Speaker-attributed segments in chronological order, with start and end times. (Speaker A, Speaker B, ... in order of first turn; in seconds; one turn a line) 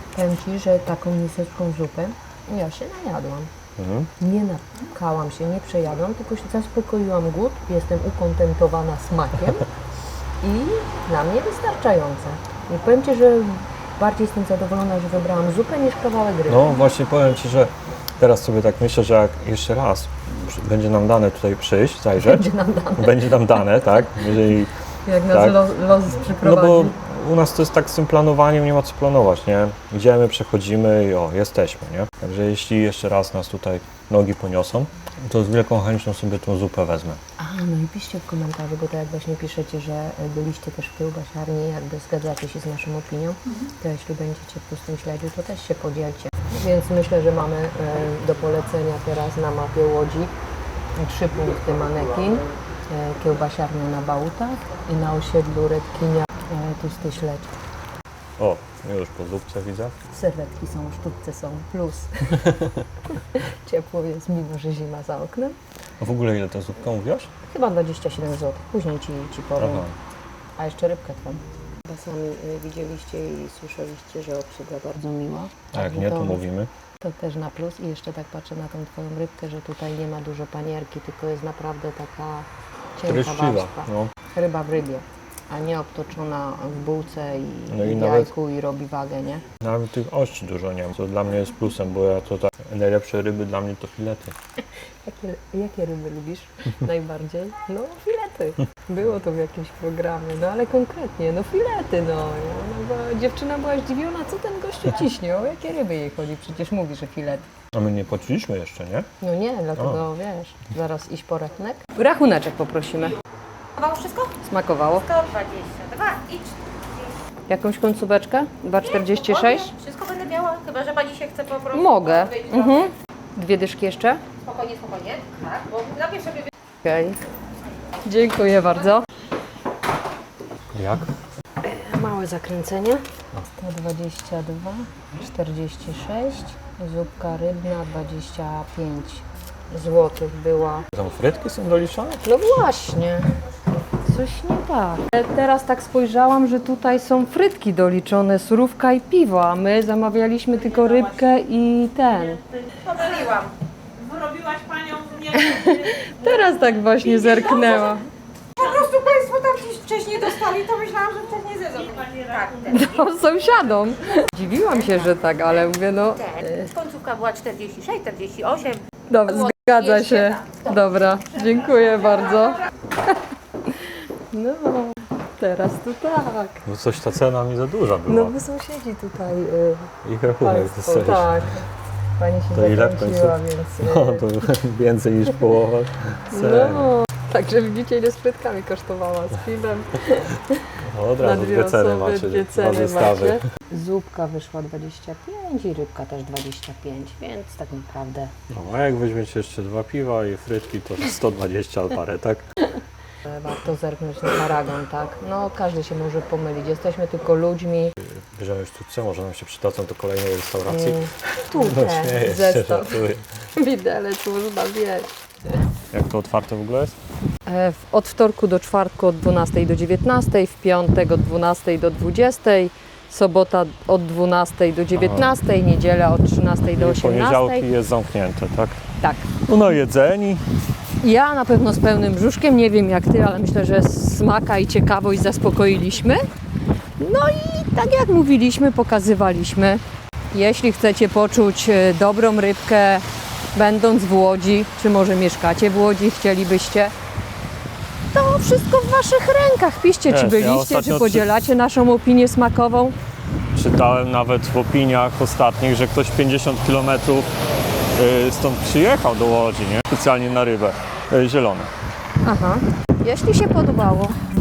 Speaker A: 0.1-3.5
Speaker B: 3.8-4.1
Speaker A: 4.2-9.7
Speaker A: 10.4-16.8
Speaker B: 16.5-22.4
Speaker A: 22.2-23.9
Speaker B: 23.0-24.7
Speaker A: 25.1-27.0
Speaker B: 25.3-25.6
Speaker B: 26.4-37.2
Speaker A: 37.4-50.3
Speaker A: 51.0-57.5
Speaker B: 58.4-60.0
Speaker A: 60.1-62.4
Speaker B: 62.5-62.8
Speaker A: 63.1-65.5
Speaker B: 66.0-67.3
Speaker A: 67.5-69.9
Speaker B: 69.6-70.0
Speaker A: 70.6-76.4
Speaker B: 75.7-76.7
Speaker A: 77.0-89.5
Speaker B: 83.0-84.1
Speaker B: 87.7-88.3
Speaker B: 89.6-94.3
Speaker A: 95.0-107.5
Speaker B: 107.7-109.1
Speaker A: 109.2-113.2
Speaker B: 109.8-110.0
Speaker C: 113.8-114.3
Speaker A: 114.5-115.1
Speaker C: 114.9-116.5
Speaker A: 117.5-119.7
Speaker C: 119.0-122.8
Speaker A: 121.7-124.2
Speaker C: 124.4-126.5
Speaker A: 126.8-127.2
Speaker A: 128.1-129.1
Speaker B: 130.7-131.1
Speaker A: 131.6-140.9
Speaker B: 140.9-142.2
Speaker A: 142.2-143.3
Speaker A: 144.1-152.4
Speaker C: 152.8-153.5
Speaker D: 154.0-156.1
Speaker A: 155.3-158.1
Speaker C: 158.6-162.8
Speaker D: 162.0-162.5
Speaker A: 162.7-166.7
Speaker C: 166.4-168.8
Speaker A: 169.1-173.1
Speaker A: 174.3-176.6
Speaker B: 176.7-178.4
Speaker A: 178.1-181.7
Speaker B: 180.0-181.4
Speaker A: 182.2-184.3
Speaker B: 182.5-187.0
Speaker A: 186.3-190.7
Speaker B: 190.9-193.4
Speaker A: 191.2-198.4
Speaker B: 198.5-202.4
Speaker A: 203.3-207.9
Speaker B: 208.0-213.3
Speaker A: 210.7-213.0
Speaker A: 213.6-215.1
Speaker B: 215.9-217.0
Speaker A: 217.5-227.7
Speaker B: 224.9-225.4
Speaker B: 226.7-228.8
Speaker A: 229.0-229.3
Speaker B: 229.5-230.4
Speaker A: 231.0-236.2
Speaker A: 237.0-246.9
Speaker A: 248.1-252.9
Speaker B: 250.1-251.5
Speaker B: 253.5-261.7
Speaker A: 262.2-264.2